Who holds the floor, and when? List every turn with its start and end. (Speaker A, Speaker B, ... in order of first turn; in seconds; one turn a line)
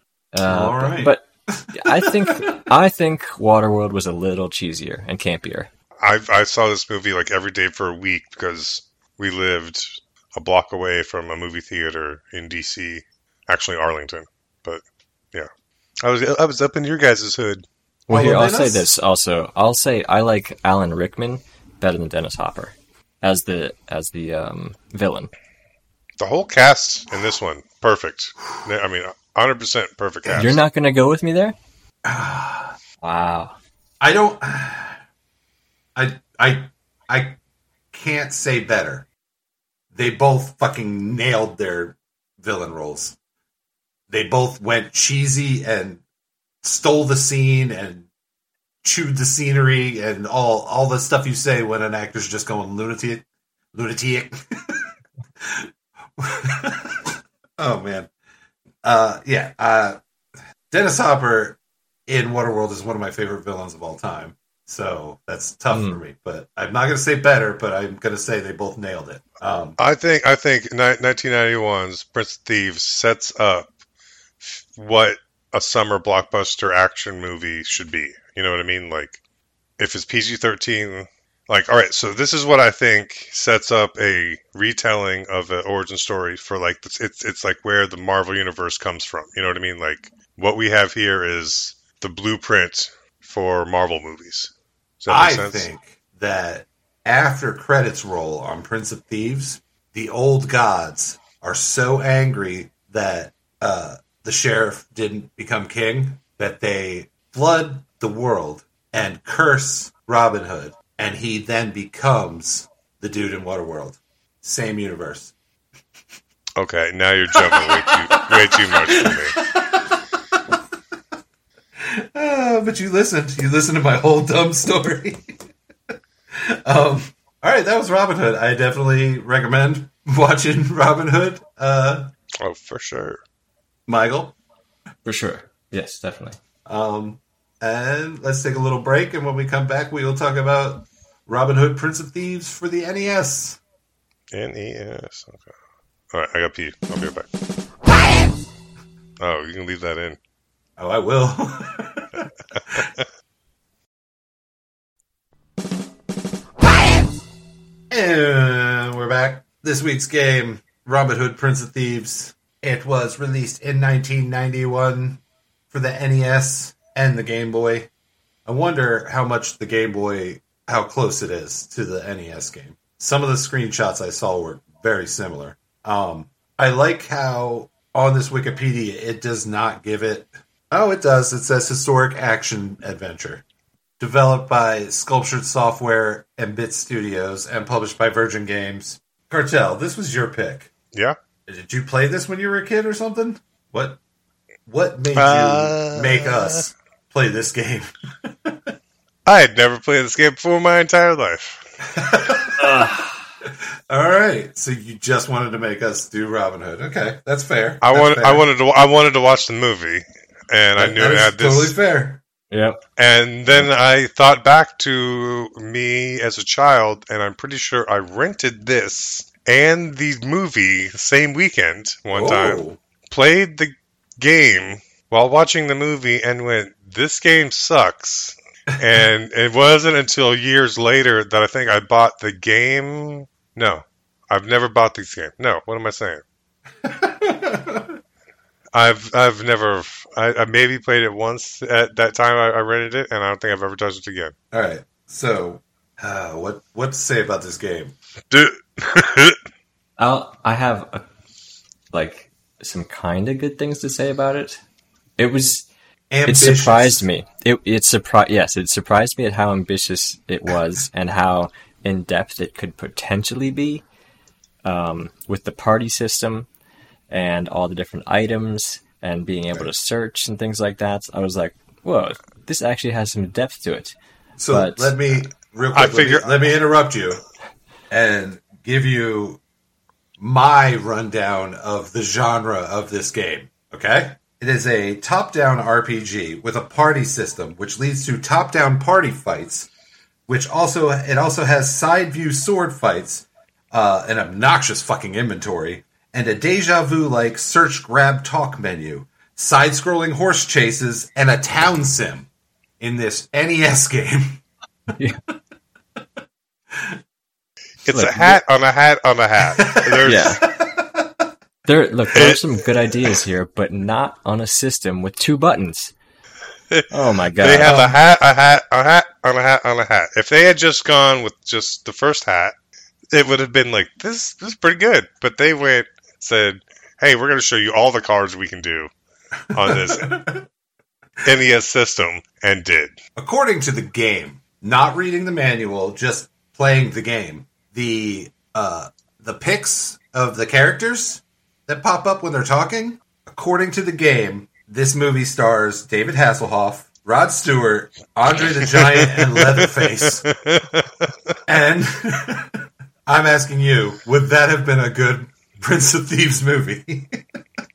Speaker A: 0.3-5.7
Speaker B: 0.4-2.6
Speaker C: 6.0-14.8
Speaker C: 16.0-17.6
Speaker A: 18.1-25.3
Speaker B: 18.1-18.9
Speaker C: 26.2-30.6
Speaker A: 30.4-31.6
Speaker B: 32.0-32.8
Speaker A: 33.0-33.5
Speaker B: 34.0-35.0
Speaker B: 35.9-37.4
Speaker B: 37.9-39.0
Speaker B: 39.9-43.1
Speaker B: 44.1-46.0
Speaker B: 46.6-48.1
Speaker B: 48.8-54.9
Speaker B: 55.4-58.1
Speaker B: 58.8-60.0
Speaker B: 60.7-69.8
Speaker A: 65.7-66.0
Speaker C: 69.8-73.7
Speaker C: 74.4-79.2
Speaker C: 79.8-95.7
Speaker B: 95.1-115.3
Speaker C: 116.6-119.4
Speaker B: 117.3-120.6
Speaker B: 121.8-125.3
Speaker B: 126.3-132.1
Speaker C: 132.4-133.2
Speaker B: 133.9-134.3
Speaker A: 135.0-136.4
Speaker B: 136.7-143.6
Speaker C: 144.3-145.5
Speaker C: 146.1-147.3
Speaker C: 149.2-150.2
Speaker B: 150.8-152.9
Speaker B: 157.9-167.9
Speaker B: 168.4-183.4
Speaker B: 184.0-190.7
Speaker B: 191.5-194.0
Speaker B: 194.7-198.7
Speaker C: 195.1-196.6
Speaker C: 199.2-201.6
Speaker B: 201.9-202.7
Speaker A: 202.6-203.2
Speaker B: 203.4-208.4
Speaker C: 207.8-211.8
Speaker B: 210.8-212.2
Speaker A: 212.5-212.8
Speaker C: 213.0-236.2
Speaker B: 222.1-222.8
Speaker B: 236.8-238.0
Speaker C: 238.7-244.3
Speaker B: 244.5-247.9
Speaker C: 248.3-249.4
Speaker A: 250.0-251.0
Speaker A: 251.9-254.6
Speaker A: 255.2-255.7
Speaker B: 256.1-257.1
Speaker A: 256.2-263.8
Speaker A: 264.6-266.5
Speaker A: 267.1-273.9
Speaker B: 274.4-277.2
Speaker A: 274.5-274.9
Speaker C: 275.7-276.3
Speaker B: 277.9-279.4
Speaker B: 280.2-289.7
Speaker B: 290.3-302.3
Speaker B: 302.8-304.4
Speaker C: 307.8-310.5
Speaker A: 307.9-308.4
Speaker B: 309.5-311.2
Speaker A: 310.0-310.4
Speaker A: 311.6-315.9
Speaker C: 312.1-312.4
Speaker C: 316.7-322.5
Speaker A: 316.9-317.8
Speaker B: 317.6-318.0
Speaker C: 323.1-328.9
Speaker C: 329.5-330.2
Speaker B: 329.5-330.4
Speaker C: 331.2-333.0
Speaker B: 333.1-350.2
Speaker C: 348.6-351.1
Speaker B: 351.5-357.2